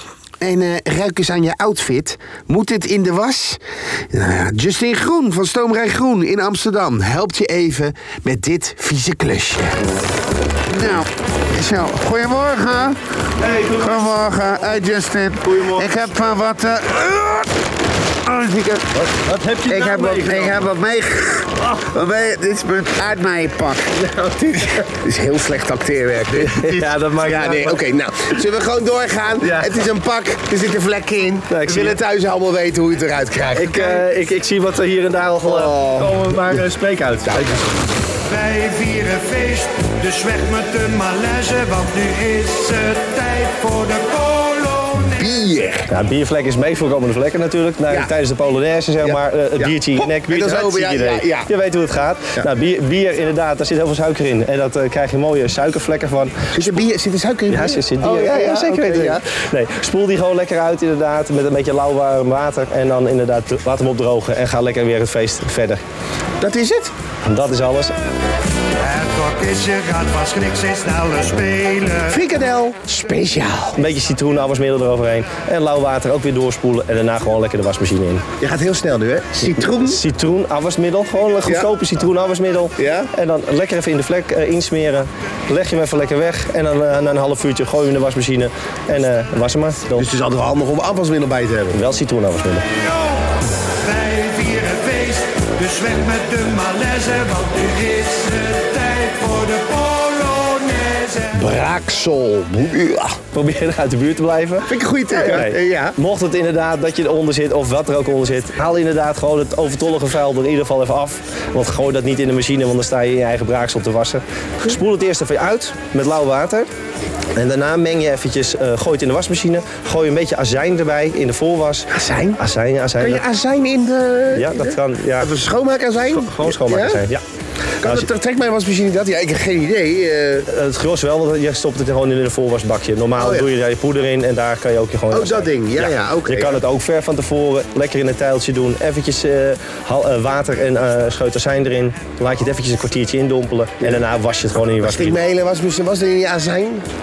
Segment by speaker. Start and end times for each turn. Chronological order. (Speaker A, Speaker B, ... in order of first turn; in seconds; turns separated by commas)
Speaker A: 0.4-9.8, Speaker A: 10.7-13.0, Speaker B: 13.4-14.7, Speaker A: 13.7-17.5, Speaker B: 15.4-16.1, Speaker A: 18.2-19.0, Speaker B: 18.9-20.6, Speaker A: 19.6-24.0, Speaker B: 24.0-24.7, Speaker A: 24.6-34.0, Speaker B: 26.4-27.8, Speaker B: 29.4-29.8, Speaker B: 31.5-32.0, Speaker B: 33.5-37.7, Speaker A: 35.4-36.6, Speaker A: 37.3-37.6, Speaker C: 38.3-45.0, Speaker A: 45.0-45.9, Speaker B: 45.9-56.5, Speaker A: 49.0-51.5, Speaker A: 56.5-59.2, Speaker B: 57.5-65.8, Speaker A: 66.4-66.9, Speaker B: 67.2-67.9, Speaker C: 68.8-72.1, Speaker A: 72.1-73.8, Speaker B: 73.7-78.2, Speaker A: 78.4-80.0, Speaker B: 79.6-90.1, Speaker A: 81.4-81.7, Speaker A: 82.8-83.1, Speaker A: 90.0-91.8, Speaker B: 91.7-92.7, Speaker C: 93.8-101.3, Speaker A: 101.3-103.2, Speaker B: 103.3-116.7, Speaker A: 104.7-106.0, Speaker B: 117.3-123.2, Speaker A: 121.9-122.4, Speaker A: 123.0-127.0, Speaker B: 124.3-125.3, Speaker B: 126.1-127.2, Speaker A: 127.8-130.5, Speaker B: 127.8-128.1, Speaker B: 130.5-145.2, Speaker A: 133.2-133.5, Speaker A: 135.1-136.6, Speaker A: 144.8-146.8